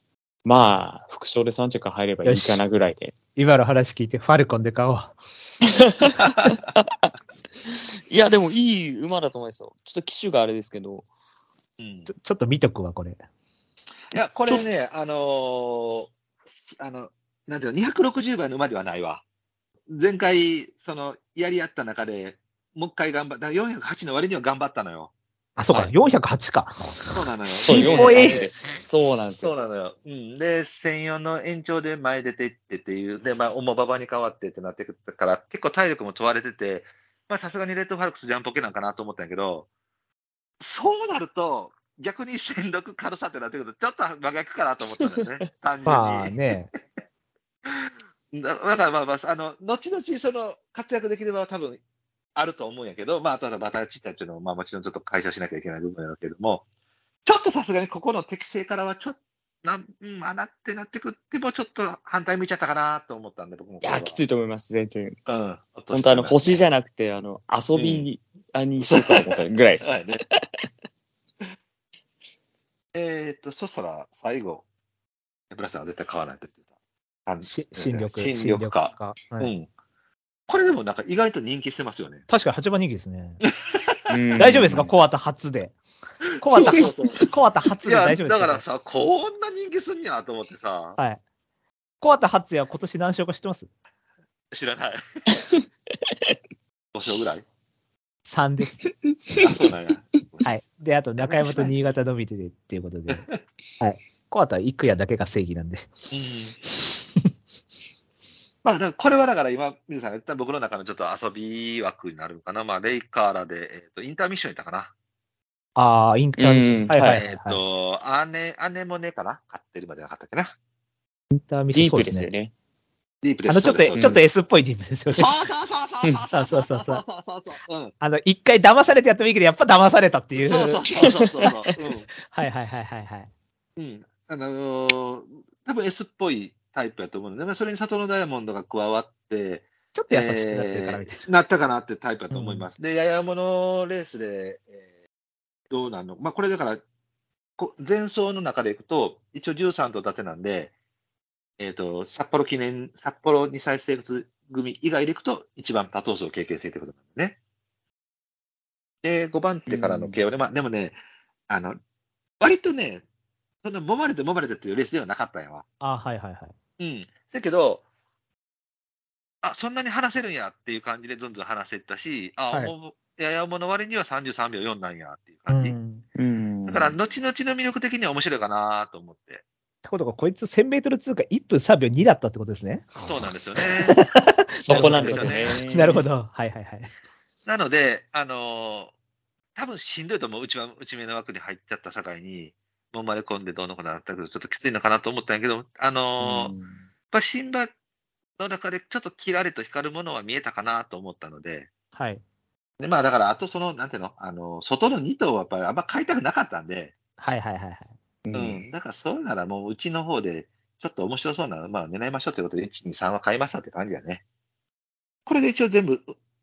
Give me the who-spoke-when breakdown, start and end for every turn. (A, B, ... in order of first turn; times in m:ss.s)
0:00.4-0:03.2 A
0:02.2-0:02.6 B
0:03.4-0:05.2 B
0:05.8-0:06.9 A
0:07.6-0:11.1 A
0:11.8-0:12.1 C
0:12.1-0:13.2 B
0:14.1-0:19.2 C
0:19.9-0:25.1 C
0:25.6-0:28.4 B
0:27.1-0:28.8 C
0:27.6-0:29.6 A
0:29.4-0:39.7 C
0:40.6-0:46.4 C
0:45.9-0:46.7 B
0:47.7-0:51.8 C
0:52.4-0:56.6 C
0:57.2-1:04.2 C
1:03.8-1:05.2 A
1:05.3-1:06.6 C
1:05.9-1:10.7 A
1:07.8-1:08.1 C
1:08.8-1:10.2 C
1:12.9-1:14.6 C
1:15.5-1:16.6 C
1:17.3-1:19.7 C
1:17.5-1:19.5 B
1:20.5-1:22.2 C
1:22.3-1:23.4 B
1:23.4-1:24.5 C
1:24.1-1:24.9 A
1:24.4-1:25.8 B
1:26.4-1:28.6 B
1:26.4-1:27.3 C
1:27.8-1:31.0 C
1:32.0-1:33.7 B
1:34.5-1:35.5 C
1:36.9-1:37.4 C
1:38.3-1:38.9 B
1:38.8-1:39.5 A
1:39.4-1:40.6 C
1:40.4-1:43.3 B
1:41.2-1:41.8 C
1:43.8-1:45.9 B
1:46.1-1:46.6 C
1:48.6-1:54.9 C
1:55.8-1:57.6 B
1:56.4-1:57.2 A
1:57.1-2:00.5 C
2:01.3-2:02.3 B
2:01.7-2:02.5 A
2:03.2-2:04.2 C
2:03.5-2:05.3 B
2:05.1-2:07.9 C
2:06.3-2:07.0 B
2:08.0-2:13.3 B
2:10.4-2:12.1 C
2:11.0-2:11.5 A
2:13.8-2:24.8 C
2:19.9-2:21.3 B
2:22.3-2:22.7 B
2:25.7-2:26.8 C
2:27.6-2:30.7 C
2:31.6-2:37.4 C
2:39.0-2:41.0 C
2:39.7-2:40.2 A
2:41.5-2:41.8 C
2:42.4-2:43.0 C
2:43.6-2:45.6 C
2:45.8-2:46.5 B
2:46.8-2:47.8 C
2:49.4-2:55.8 C
2:55.5-2:56.0 B
2:56.2-2:57.0 A
2:56.7-2:59.4 C
2:59.8-3:03.1 B
3:03.0-3:04.0 C
3:03.6-3:06.9 B
3:04.6-3:06.0 A
3:04.7-3:05.6 C
3:07.4-3:08.9 C
3:09.6-3:16.5 C
3:16.2-3:16.7 A
3:17.1-3:17.7 C
3:18.4-3:21.7 C
3:22.0-3:22.2 B
3:22.8-3:26.9 C
3:27.2-3:27.9 B
3:28.2-3:28.6 A
3:28.3-3:34.2 C
3:35.3-3:36.1 C